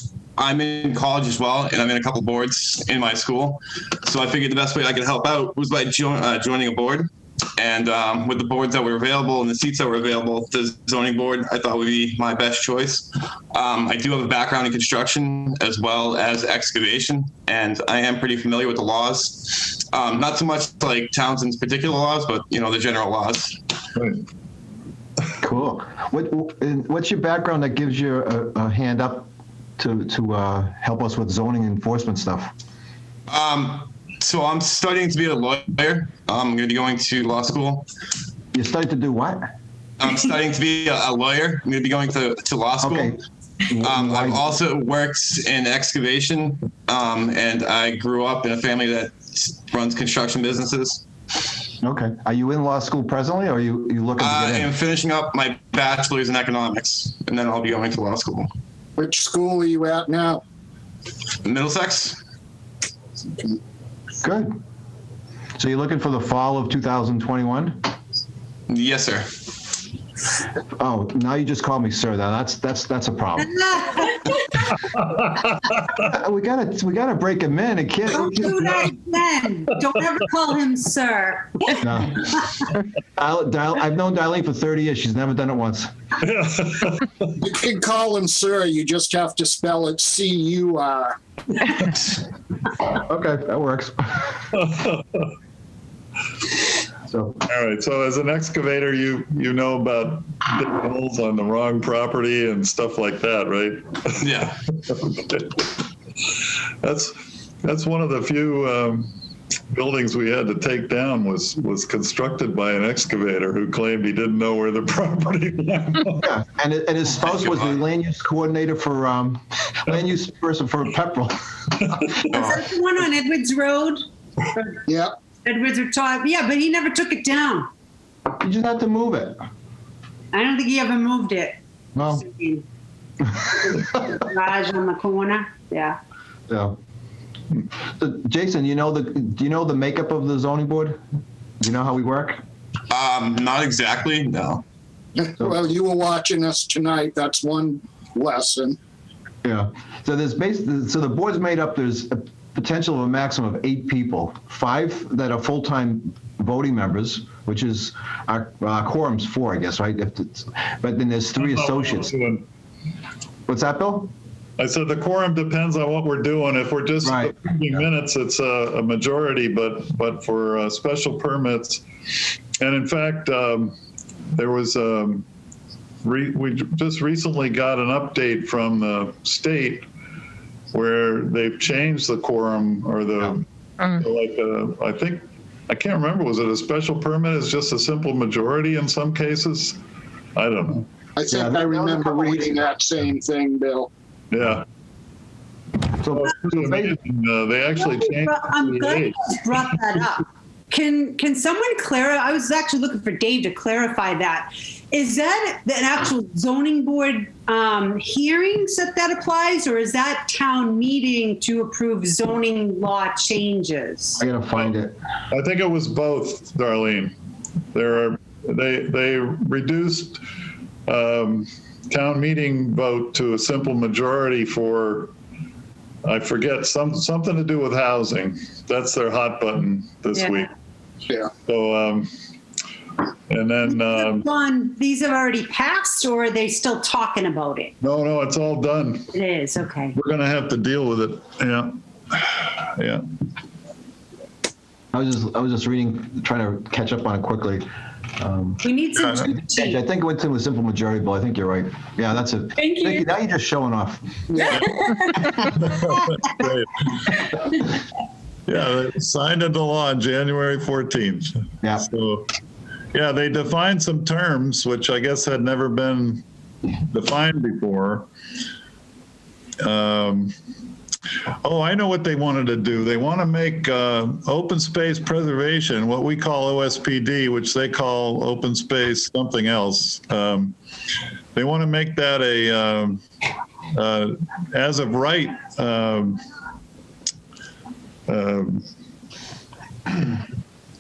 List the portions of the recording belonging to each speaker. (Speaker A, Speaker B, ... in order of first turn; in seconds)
Speaker A: 0.4-23.6, 33.3-37.9, 40.0-43.1, 43.8-51.0, 54.2-58.5, 61.4-62.2, 68.7-69.3, 104.2-104.6, 117.3-117.8, 122.3-122.7, 142.9-144.6
Speaker B: 24.0-24.2, 86.2-87.1, 94.5-95.3, 97.5-105.8, 106.8-109.1, 109.7-116.3, 161.4-162.4, 164.6-171.8, 172.6-173.8, 174.3-175.2, 176.0-179.9, 180.7-189.8, 190.3-190.9, 194.3-194.7, 196.1-199.3, 215.3-217.2, 217.7-220.2, 220.9-225.1, 226.0-230.5, 231.5-232.1, 233.3-234.2, 237.8-239.1, 239.9-243.0, 249.0-249.3, 255.6-257.2, 258.5-262.3, 262.9-266.2, 266.9-268.1, 269.6-270.3, 271.4-280.6, 281.4-283.0, 283.7-286.2, 288.1-288.7
Speaker C: 25.4-32.5, 38.5-39.5, 42.8-44.5, 51.8-54.7, 64.2-64.5, 65.6-67.9, 70.8-73.5, 76.0-78.7, 81.7-82.3, 83.2-85.9, 92.9-94.3, 97.1-97.4, 116.2-121.9, 128.4-129.4, 132.0-132.2, 136.5-136.8, 137.9-141.0, 141.6-142.4, 149.4-162.1, 163.5-164.1, 167.0-167.4, 191.3-192.7, 196.0-196.9, 214.2-215.0, 244.9-247.7, 248.2-248.6, 249.5-254.1
Speaker D: 59.0-60.4, 87.4-91.2, 124.9-125.2, 145.2-148.8, 191.2-193.9, 254.3-254.6
Speaker E: 73.4-74.4, 78.1-82.4, 122.3-124.8, 125.4-127.7, 130.3-132.6, 133.3-136.0, 197.6-214.2, 233.7-237.7, 239.1-240.0, 248.6-249.8, 252.6-253.1, 254.4-255.4